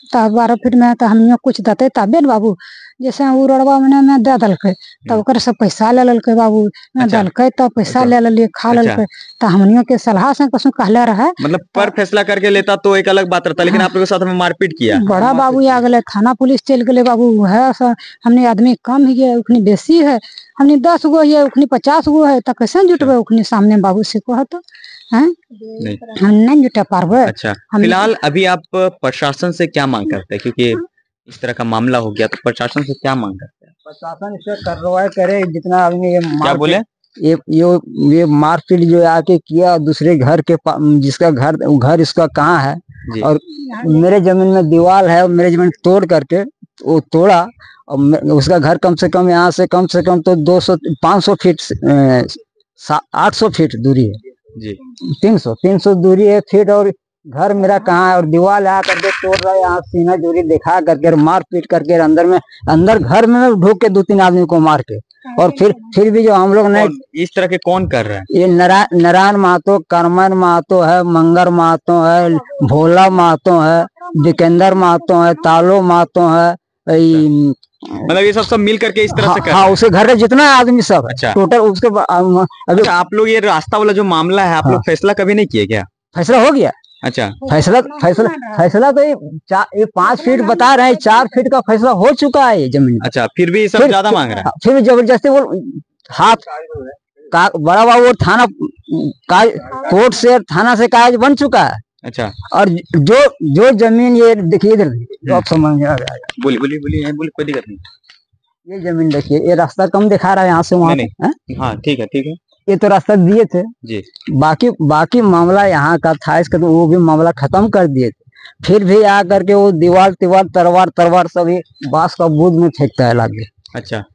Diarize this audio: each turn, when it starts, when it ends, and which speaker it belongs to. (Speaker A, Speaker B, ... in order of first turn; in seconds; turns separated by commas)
Speaker A: 0.1-11.9, Speaker B: 7.0-7.3, Speaker B: 7.8-8.1, Speaker B: 8.7-9.0, Speaker B: 11.4-15.0, Speaker A: 14.9-25.4, Speaker C: 15.1-15.8, Speaker A: 26.1-28.1, Speaker B: 27.2-33.7, Speaker C: 33.9-54.2, Speaker B: 36.4-36.8, Speaker C: 55.1-66.9, Speaker B: 66.7-68.3, Speaker C: 68.3-78.2, Speaker B: 78.1-79.8, Speaker C: 79.1-82.9, Speaker B: 81.1-81.4, Speaker B: 82.7-85.9, Speaker C: 86.1-86.7, Speaker B: 87.0-87.4, Speaker A: 87.4-88.6, Speaker C: 87.5-93.1, Speaker A: 90.0-91.3, Speaker B: 93.0-94.5, Speaker C: 93.8-101.8, Speaker B: 102.0-102.3, Speaker C: 102.5-106.3, Speaker B: 106.4-107.8, Speaker C: 108.7-111.3, Speaker B: 110.8-112.4, Speaker C: 112.7-113.7, Speaker C: 114.3-123.5, Speaker B: 123.7-124.0